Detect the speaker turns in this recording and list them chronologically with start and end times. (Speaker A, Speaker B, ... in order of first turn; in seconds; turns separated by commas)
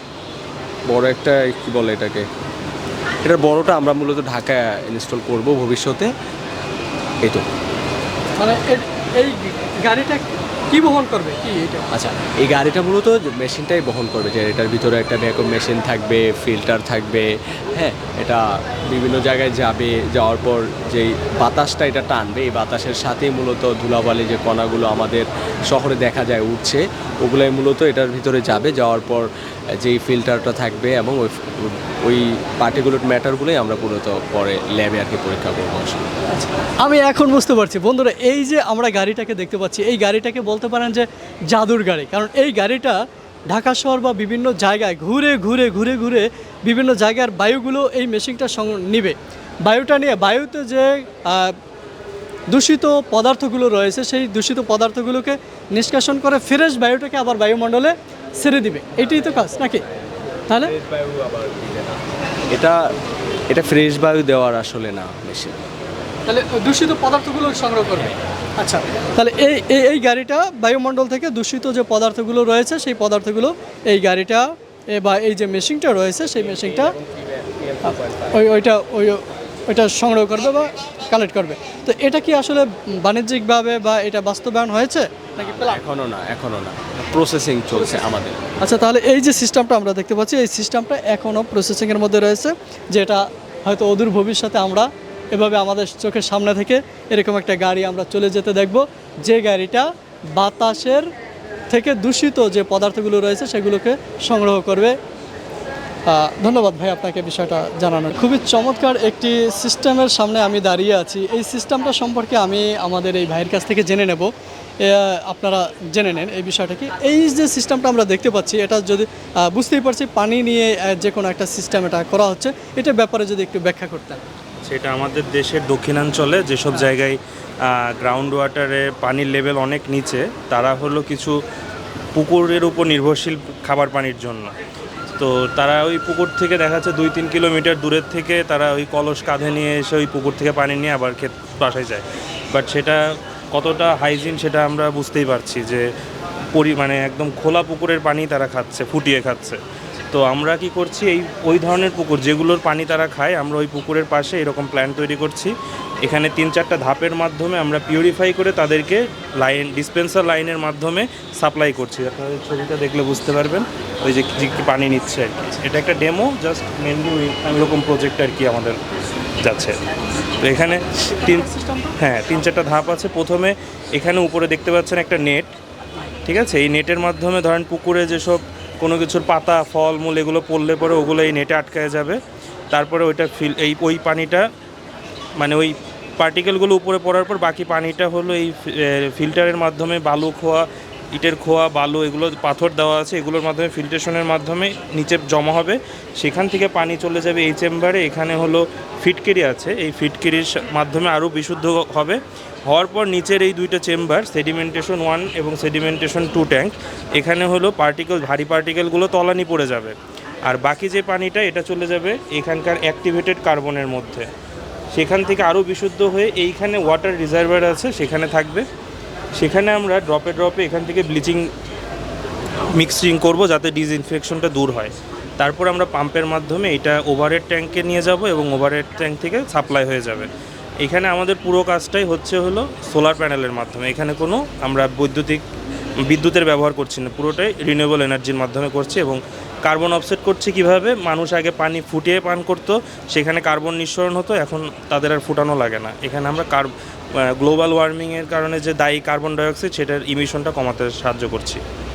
Speaker A: 0.9-2.3, Speaker A: 3.2-6.1, Speaker B: 8.4-11.9, Speaker A: 11.9-29.3, Speaker A: 29.8-36.1, Speaker B: 36.3-43.0, Speaker B: 43.5-51.6, Speaker B: 52.5-59.8, Speaker A: 59.0-59.8, Speaker A: 60.5-62.0, Speaker A: 62.5-62.8, Speaker A: 63.5-65.6, Speaker B: 66.3-76.9, Speaker A: 76.2-78.4, Speaker B: 77.8-85.8, Speaker A: 85.5-88.4, Speaker B: 87.8-88.0, Speaker B: 88.6-101.1, Speaker B: 101.7-105.0, Speaker B: 106.1-114.3, Speaker B: 114.8-124.2, Speaker C: 124.7-131.3, Speaker C: 132.2-134.5, Speaker C: 135.2-143.0, Speaker C: 143.5-145.8, Speaker C: 146.5-149.6, Speaker C: 150.1-155.5, Speaker C: 156.0-168.8, Speaker C: 169.4-169.8, Speaker C: 170.4-171.5, Speaker B: 171.2-171.9, Speaker C: 172.0-175.5, Speaker C: 176.2-182.2, Speaker C: 182.7-184.4, Speaker C: 185.4-209.9, Speaker C: 210.5-214.2, Speaker C: 215.0-218.6, Speaker C: 219.4-221.5, Speaker C: 222.8-230.3, Speaker C: 230.8-235.4, Speaker C: 236.0-251.6